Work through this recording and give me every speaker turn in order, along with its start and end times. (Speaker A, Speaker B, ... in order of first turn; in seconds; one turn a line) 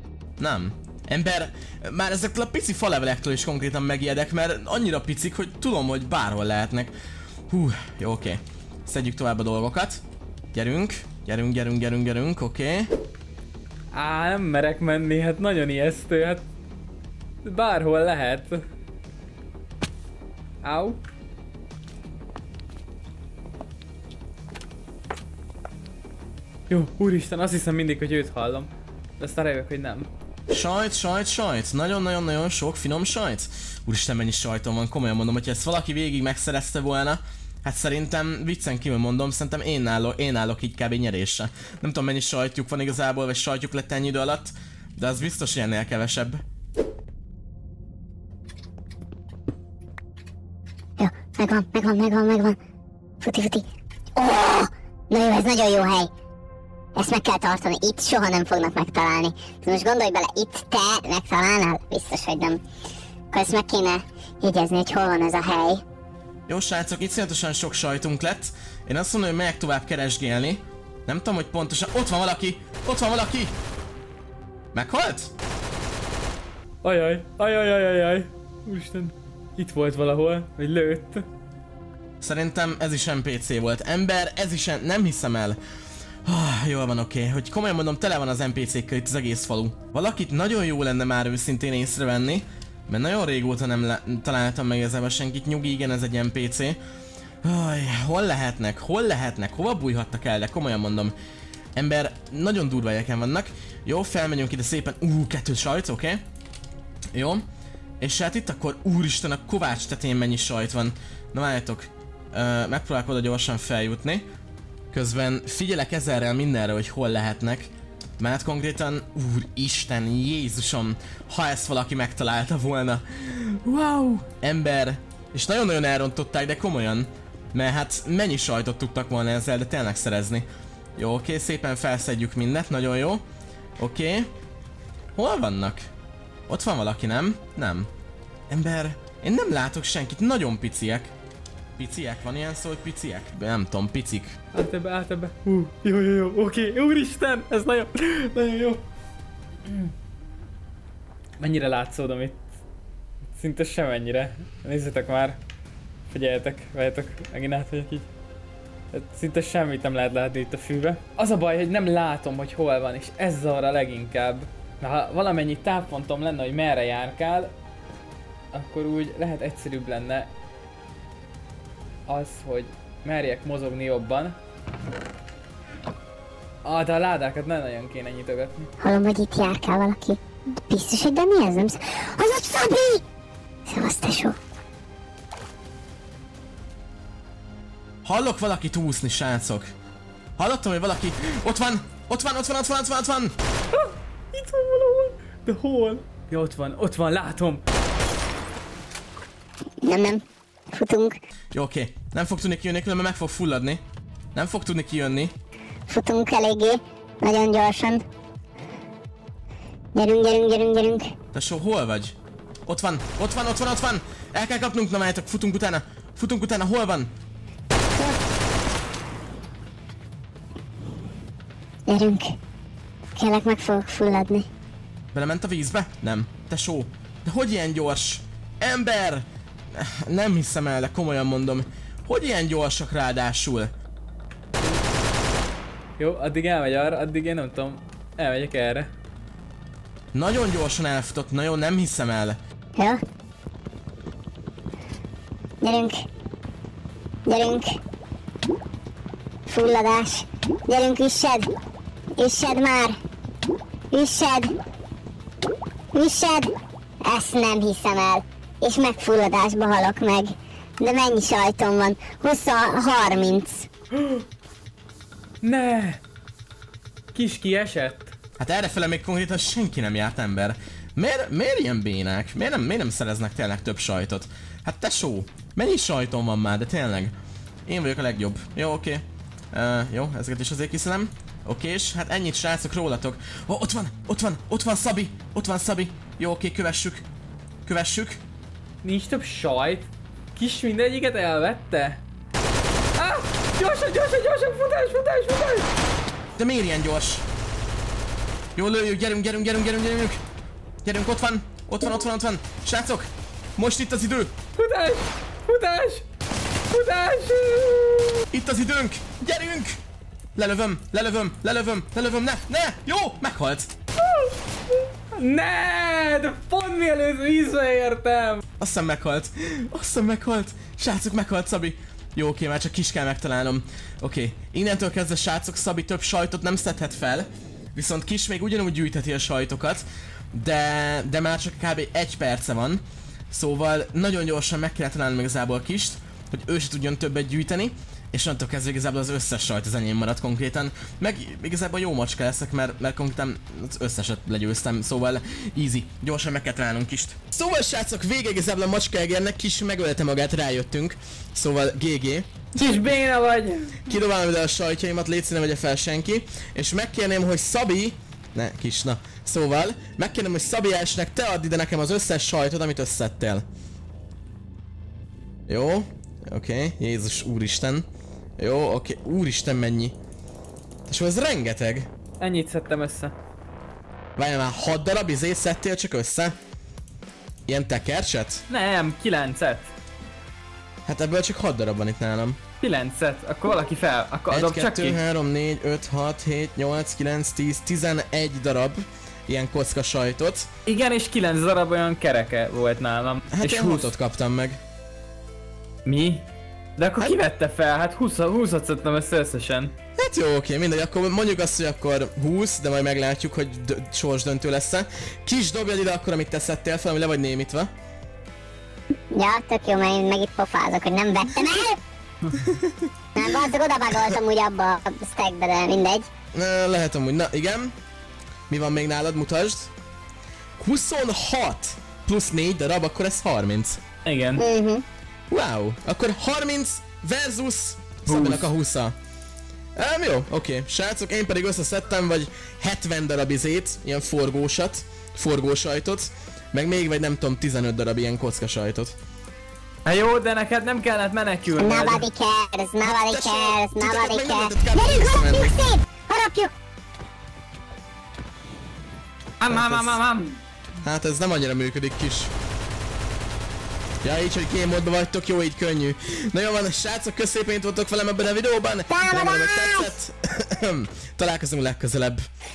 Speaker A: 0.4-6.9
Speaker A: 7.5-10.0
Speaker A: 10.5-12.9
Speaker B: 13.9-16.4
Speaker B: 17.4-18.6
Speaker B: 20.6-21.0
Speaker B: 26.7-30.1
Speaker A: 30.5-46.4
Speaker C: 51.0-52.6
Speaker C: 53.2-53.6
Speaker C: 54.1-56.1
Speaker C: 57.0-62.6
Speaker C: 63.3-65.8
Speaker A: 66.5-73.5
Speaker A: 74.7-75.3
Speaker B: 76.8-81.2
Speaker A: 82.2-85.6
Speaker A: 86.2-96.8
Speaker A: 97.4-101.1
Speaker A: 101.8-106.2
Speaker A: 107.1-107.4
Speaker A: 108.0-114.2
Speaker A: 114.9-133.2
Speaker A: 133.8-134.3
Speaker A: 135.2-135.9
Speaker A: 136.5-137.9
Speaker A: 138.5-141.1
Speaker A: 141.8-144.4
Speaker B: 144.5-148.8
Speaker B: 149.6-149.9
Speaker B: 151.4-152.4
Speaker B: 153.3-155.4
Speaker B: 156.1-158.1
Speaker B: 158.9-167.5
Speaker B: 168.5-170.3
Speaker B: 172.1-174.4
Speaker B: 176.6-178.7
Speaker C: 178.8-183.0
Speaker C: 183.7-184.3
Speaker A: 188.0-189.7
Speaker A: 190.4-193.3
Speaker B: 193.7-197.6
Speaker C: 199.8-201.1
Speaker A: 201.5-203.8
Speaker A: 204.3-205.3
Speaker C: 205.9-208.0
Speaker C: 209.9-211.1
Speaker A: 211.3-212.1
Speaker A: 212.7-217.1
Speaker C: 221.9-222.3
Speaker C: 223.1-224.5
Speaker A: 225.1-233.7
Speaker B: 236.0-238.9
Speaker A: 240.1-242.4
Speaker C: 242.8-243.0
Speaker C: 245.6-245.9
Speaker C: 247.2-247.8
Speaker C: 249.5-251.5
Speaker C: 252.2-252.9
Speaker C: 253.9-254.5
Speaker C: 255.9-263.7
Speaker B: 263.9-264.2
Speaker B: 265.4-266.0
Speaker B: 267.1-268.1
Speaker A: 268.4-277.1
Speaker A: 277.6-287.0
Speaker A: 287.6-288.2
Speaker B: 288.8-292.0
Speaker B: 292.9-295.7
Speaker A: 296.4-297.2
Speaker A: 298.6-300.2
Speaker A: 300.8-304.3
Speaker B: 304.6-306.0
Speaker B: 306.7-308.2
Speaker A: 308.3-309.8
Speaker A: 310.4-313.7
Speaker B: 314.0-318.4
Speaker A: 318.6-352.3
Speaker B: 352.5-353.9
Speaker A: 353.8-363.4
Speaker A: 365.5-367.9
Speaker A: 368.4-369.9
Speaker A: 370.9-371.9
Speaker B: 372.2-373.1
Speaker A: 374.2-376.4
Speaker A: 377.5-378.4
Speaker B: 378.5-379.7
Speaker A: 380.9-382.4
Speaker B: 382.6-385.0
Speaker A: 384.3-390.5
Speaker B: 390.6-393.9
Speaker A: 393.3-394.6
Speaker B: 395.8-399.7
Speaker A: 400.0-407.7
Speaker C: 409.1-411.8
Speaker A: 412.4-412.9
Speaker C: 413.1-416.1
Speaker A: 416.3-417.7
Speaker A: 418.5-419.7
Speaker A: 420.6-423.8
Speaker B: 424.0-424.4
Speaker C: 424.4-424.8
Speaker A: 425.3-428.9
Speaker B: 428.1-428.5
Speaker A: 429.8-438.9
Speaker B: 439.8-442.0
Speaker C: 441.6-446.5
Speaker A: 442.8-445.6
Speaker B: 449.4-450.4
Speaker A: 449.5-450.0
Speaker A: 450.8-452.3
Speaker A: 454.0-462.2
Speaker C: 458.9-459.9